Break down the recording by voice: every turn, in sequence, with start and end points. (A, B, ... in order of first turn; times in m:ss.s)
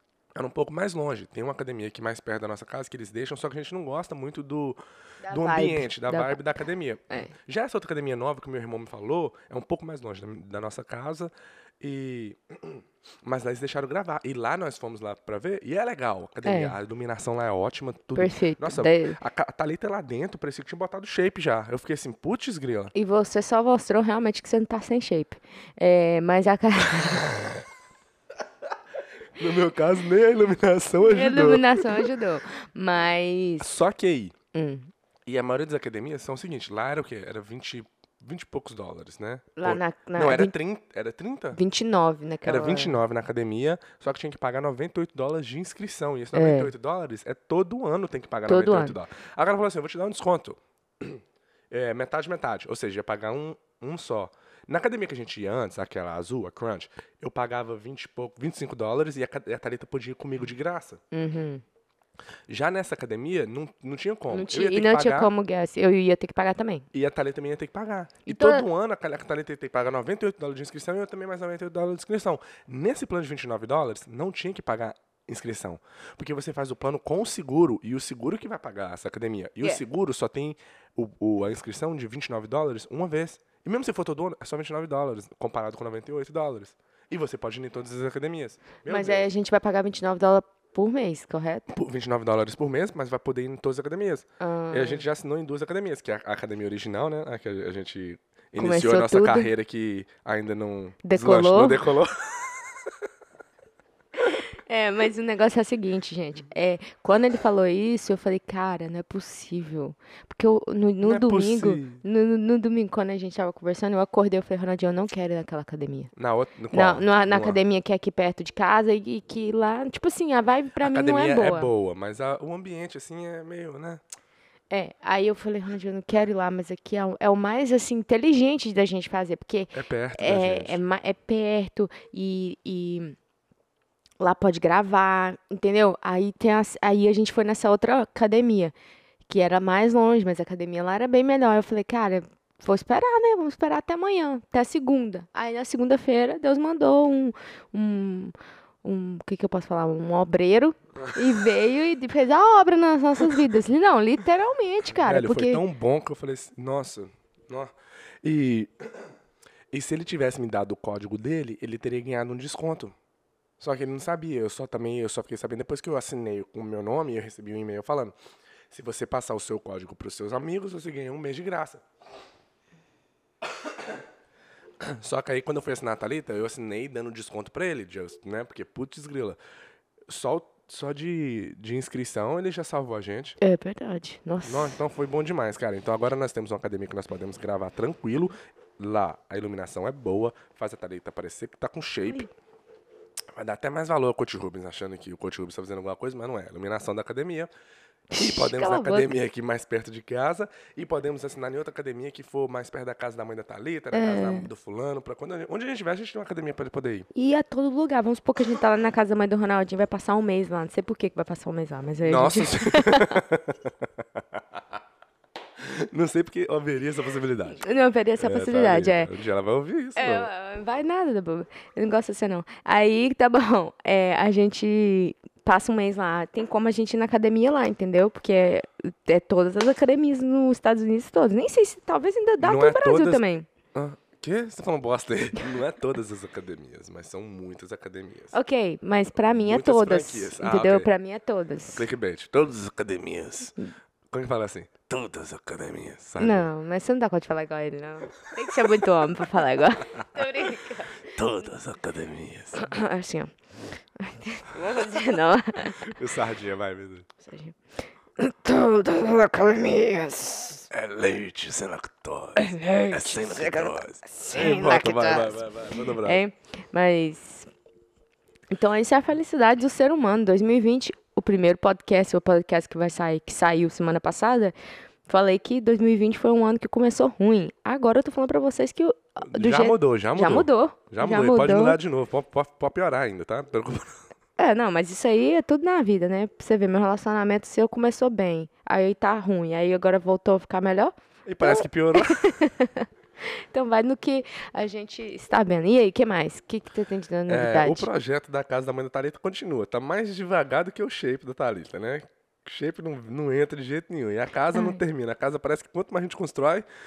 0:00.4-0:22.9 A
0:05.2-0:07.3 B
0:16.4-0:16.7 B
0:18.2-0:19.2 B
0:22.9-0:27.3 B
0:29.3-0:32.1 A
0:31.0-0:33.7 B
0:33.6-0:34.3 A
0:34.5-0:34.9 B
0:35.2-0:41.6 A
0:39.6-0:40.5 B
0:41.5-0:43.0 B
0:42.4-1:01.0 A
0:46.3-0:46.7 B
0:48.4-0:49.0 B
1:01.1-1:01.6 B
1:02.5-1:05.3 A
1:04.3-1:06.9 B
1:06.9-1:29.2 A
1:08.2-1:08.6 B
1:28.9-1:31.7 B
1:31.7-1:43.0 A
1:34.4-1:35.1 B
1:38.6-1:39.5 B
1:41.0-1:41.8 B
1:44.2-1:56.1 B
1:51.0-1:52.0 A
1:56.2-1:57.6 A
1:56.7-2:01.7 B
2:00.8-2:04.0 A
2:04.7-2:13.2 B
2:09.7-2:10.8 A
2:14.2-2:18.7 B
2:19.3-2:35.6 B
2:34.8-2:39.1 A
2:39.7-2:42.9 A
2:43.6-2:48.1 A
2:48.7-2:51.8 A
2:54.8-2:59.4 A
3:00.1-3:03.4 A
3:03.4-3:04.8 B
3:04.4-3:12.3 A
3:13.3-3:17.5 A
3:18.1-3:19.1 B
3:18.1-3:27.1 A
3:23.9-3:24.5 B
3:27.1-3:33.2 B
3:32.0-3:34.8 A
3:35.6-3:37.6 A
3:37.5-3:39.1 B
3:38.2-3:40.3 A
3:40.0-3:53.5 B
3:52.4-3:53.2 A
3:53.7-3:58.3 A
3:58.3-4:01.8 B
3:59.3-4:00.9 A
4:01.7-4:03.5 A
4:04.1-4:06.5 A
4:06.2-4:11.0 B
4:11.1-4:12.8 A
4:12.5-4:13.4 B
4:14.0-4:16.0 B
4:15.7-4:17.1 A
4:17.2-4:17.6 B
4:18.2-4:20.7 B
4:20.7-4:26.2 A
4:22.4-4:27.5 B
4:28.5-4:34.5 B
4:35.1-4:41.8 B
4:39.2-4:44.0 A
4:44.4-4:57.9 B
4:51.2-4:52.2 A
4:57.3-5:06.6 A
5:04.5-5:04.8 B